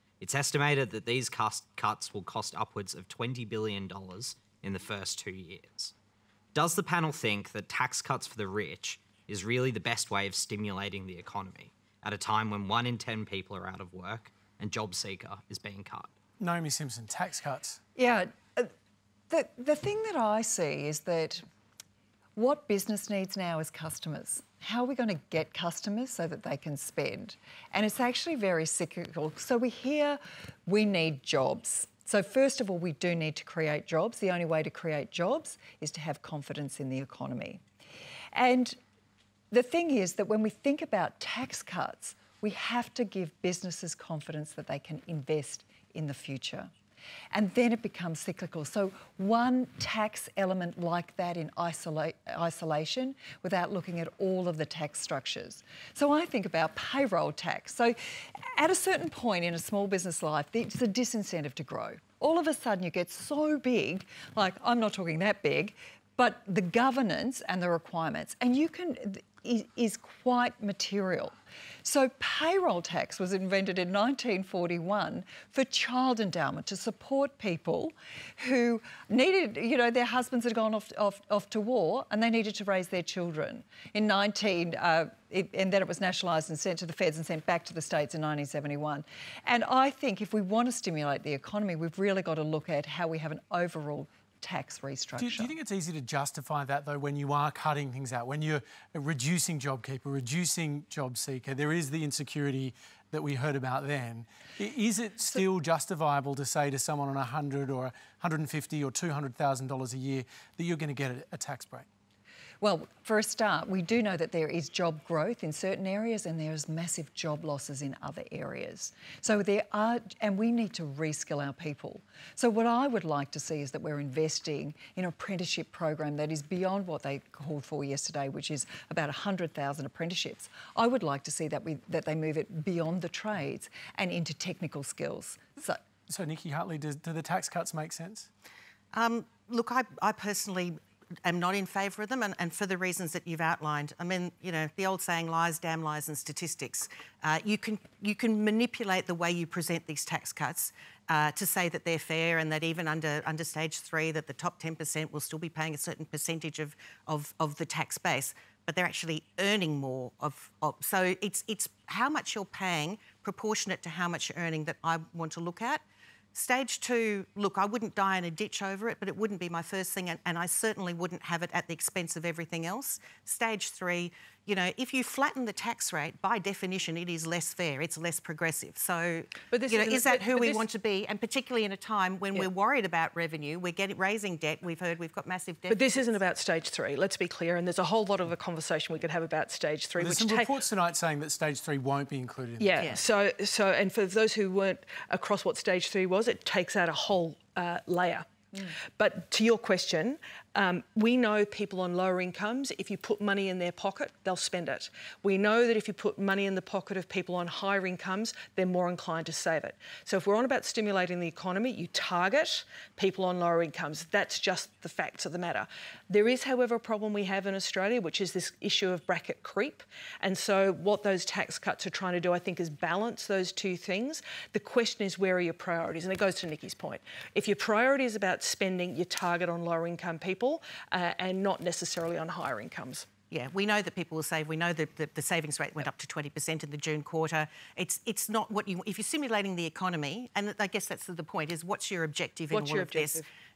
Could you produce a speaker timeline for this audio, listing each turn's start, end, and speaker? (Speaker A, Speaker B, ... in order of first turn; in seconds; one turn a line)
Speaker A: 0.2-5.9
Speaker A: 6.5-16.1
Speaker B: 16.4-17.8
Speaker C: 18.0-18.7
Speaker C: 19.3-21.4
Speaker C: 22.4-37.6
Speaker C: 38.3-38.8
Speaker C: 39.5-46.7
Speaker C: 47.3-58.0
Speaker C: 58.6-71.3
Speaker C: 71.8-95.5
Speaker B: 95.2-111.9
Speaker C: 112.6-135.8
Speaker B: 136.1-138.3
Speaker D: 138.9-165.8
Speaker D: 166.3-186.2
Speaker E: 179.5-180.7
Speaker E: 185.7-190.6
Speaker B: 190.0-193.0
Speaker E: 192.6-233.1
Speaker D: 192.8-193.0
Speaker D: 233.3-243.2
Speaker E: 242.5-243.3